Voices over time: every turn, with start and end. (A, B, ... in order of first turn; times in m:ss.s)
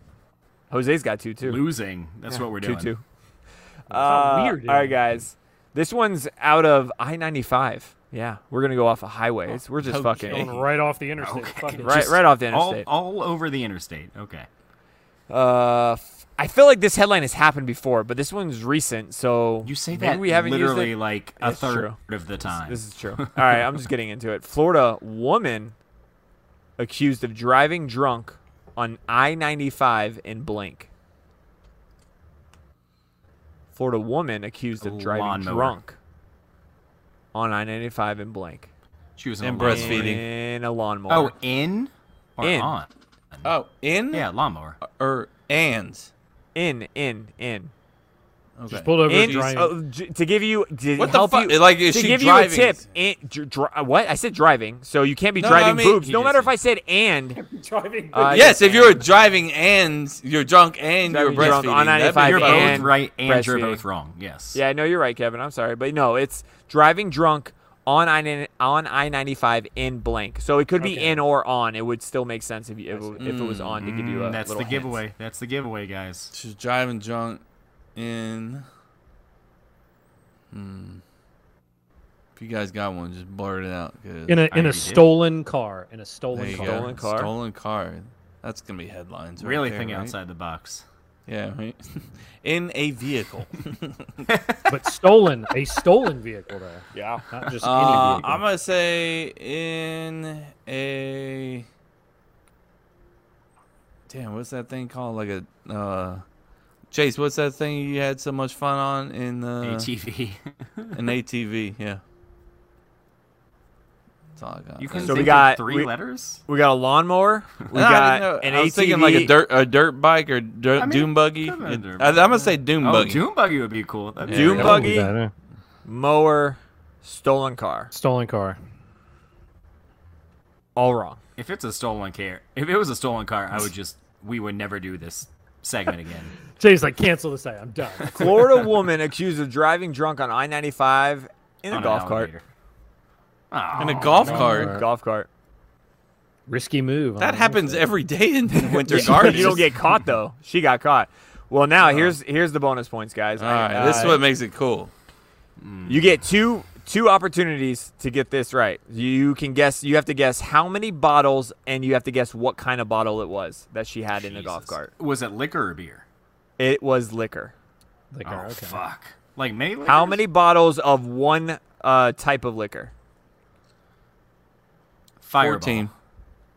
0:00.7-0:01.6 A
0:01.4-0:02.9 B
0:02.4-0:03.0 A
0:03.9-0:10.6 A
0:03.9-0:05.0 C
0:09.9-0:10.2 D
0:10.1-0:12.2 C
0:11.2-0:14.5 B
0:11.8-0:12.9 A
0:15.3-0:22.0 A
0:19.6-0:23.7 B
0:22.6-0:25.8 A
0:26.8-0:30.9 A
0:33.7-0:36.0 A
0:34.8-0:35.8 B
0:37.3-0:38.7 A
0:39.2-0:40.2 B
0:39.4-0:40.2 D
0:39.6-0:41.3 A
0:41.1-0:43.5 B
0:42.4-0:42.7 A
0:43.4-0:44.3 D
0:44.1-0:44.8 B
0:44.8-0:46.1 D
0:46.6-0:47.7 A
0:48.6-0:49.5 D
0:48.7-0:49.8 C
0:49.1-0:57.4 A
0:51.0-0:52.8 D
0:55.4-0:56.5 D
0:57.4-0:58.5 C
0:58.1-0:59.0 A
0:58.3-1:02.9 D
1:01.1-1:03.8 A
1:02.2-1:04.6 B
1:04.5-1:15.0 A
1:10.8-1:11.2 C
1:12.9-1:13.2 C
1:13.2-1:13.9 D
1:13.8-1:16.3 B
1:16.3-1:17.4 D
1:18.0-1:18.6 D
1:20.5-1:21.0 D
1:22.4-1:24.5 D
1:24.3-1:26.9 C
1:24.5-1:25.1 B
1:26.3-1:30.1 D
1:26.5-1:27.3 A
1:29.4-1:30.8 B
1:31.3-1:34.0 D
1:34.3-1:34.7 B
1:34.7-1:38.4 C
1:37.0-1:37.2 A
1:37.6-1:41.6 D
1:44.1-1:46.2 D
1:46.9-1:49.9 D
1:49.6-1:50.9 B
1:50.9-1:52.0 D
1:54.4-1:55.4 D
1:54.8-1:56.4 B
1:55.0-1:55.9 A
1:56.5-1:59.3 A
1:57.7-2:03.2 D
2:00.8-2:04.9 B
2:04.3-2:04.9 D
2:04.3-2:05.1 A
2:04.4-2:05.3 C
2:05.8-2:07.9 A
2:07.9-2:08.6 C
2:10.8-2:11.2 A
2:11.4-2:16.3 B
2:16.6-2:18.6 C
2:18.1-2:22.3 A
2:21.7-2:22.4 B
2:23.5-2:24.5 B
2:23.8-2:24.8 D
2:24.0-2:24.8 C
2:24.2-2:25.3 A
2:26.5-2:27.9 C
2:27.2-2:29.6 D
2:28.6-2:34.2 A
2:28.9-2:29.6 C
2:31.8-2:32.2 D
2:33.4-2:34.9 D
2:35.6-2:36.2 B
2:35.9-2:44.9 A
2:44.1-2:46.0 B
2:46.6-2:47.5 A
2:48.1-2:48.8 C
2:48.2-2:50.2 B
2:49.8-2:52.9 A
2:55.2-2:55.9 B
2:55.4-2:55.9 D